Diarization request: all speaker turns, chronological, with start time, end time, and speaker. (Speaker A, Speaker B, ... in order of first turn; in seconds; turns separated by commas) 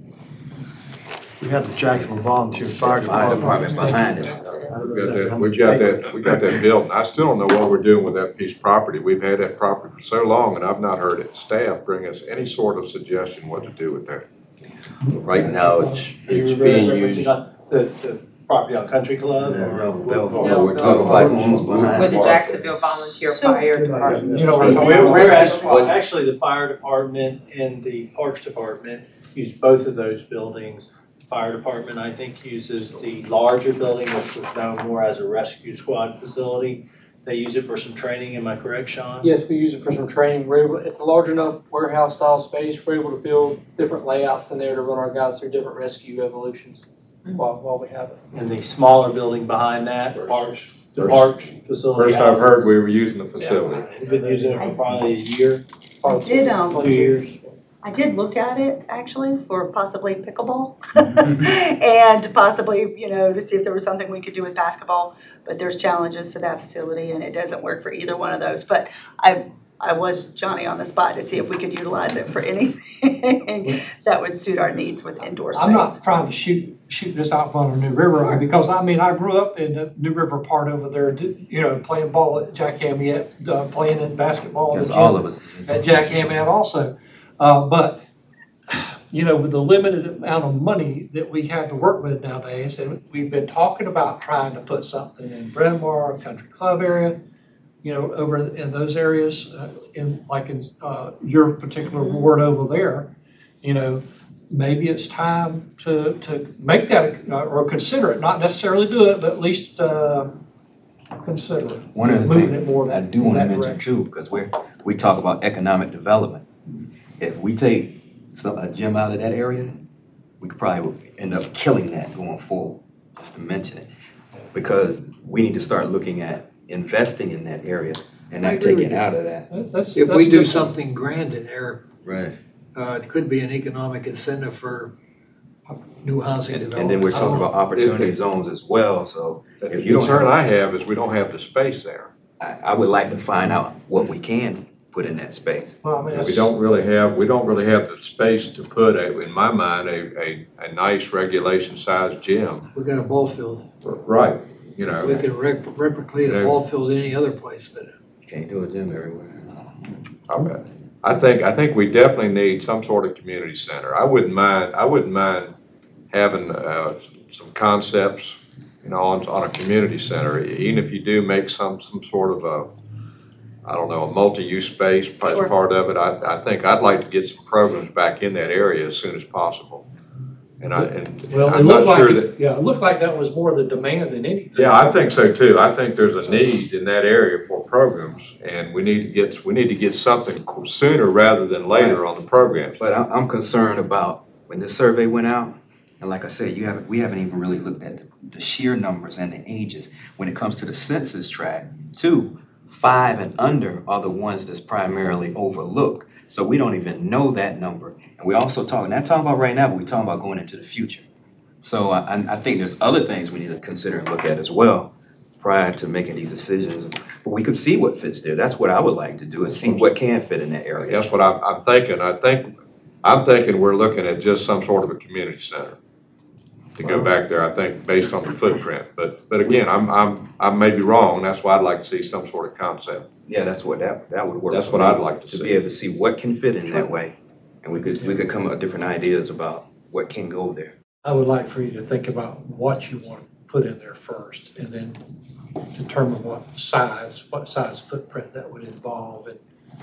Speaker A: 1.4-4.0, Speaker B: 1.7-4.5, Speaker C: 3.3-4.4, Speaker A: 4.6-6.6, Speaker D: 4.8-14.2, Speaker C: 15.1-15.4, Speaker E: 15.2-17.4, Speaker F: 16.2-21.7, Speaker B: 19.5-22.4, Speaker E: 19.6-22.6, Speaker G: 20.4-21.2, Speaker G: 21.9-25.2, Speaker H: 23.3-25.7, Speaker C: 23.8-26.0, Speaker F: 24.6-39.3, Speaker I: 39.2-48.2, Speaker F: 48.3-52.6, Speaker D: 51.0-51.3, Speaker D: 51.9-53.9, Speaker F: 53.4-55.6, Speaker C: 56.0-57.4, Speaker H: 56.0-57.1, Speaker F: 56.7-57.2, Speaker H: 57.8-76.0, Speaker C: 75.5-88.0, Speaker B: 84.7-86.4, Speaker C: 88.7-97.2, Speaker C: 97.8-110.3, Speaker H: 101.8-102.3, Speaker C: 111.2-113.9, Speaker B: 111.9-116.5, Speaker B: 117.2-119.8, Speaker B: 120.4-123.9, Speaker B: 124.5-129.5, Speaker J: 128.4-129.1, Speaker C: 129.5-130.8, Speaker J: 129.9-131.8, Speaker B: 132.0-132.4, Speaker J: 132.7-134.9, Speaker J: 135.7-137.5, Speaker B: 136.5-140.4, Speaker C: 137.1-137.4, Speaker D: 137.7-138.1, Speaker D: 139.6-142.1, Speaker B: 142.4-145.8, Speaker C: 145.8-146.5, Speaker D: 146.1-152.7, Speaker J: 152.7-153.7, Speaker D: 153.8-155.2, Speaker J: 155.0-157.9, Speaker D: 156.2-156.6, Speaker B: 158.2-159.7, Speaker D: 160.3-165.5, Speaker D: 166.1-172.7, Speaker D: 173.6-179.8, Speaker D: 180.6-182.3, Speaker C: 180.8-185.3, Speaker D: 184.5-192.8, Speaker B: 191.7-192.0, Speaker B: 192.8-211.0, Speaker B: 211.6-221.0, Speaker D: 220.8-222.5, Speaker D: 223.0-225.8, Speaker D: 226.8-233.1, Speaker B: 233.3-240.7, Speaker D: 234.5-235.6, Speaker C: 241.0-245.0, Speaker C: 245.7-249.4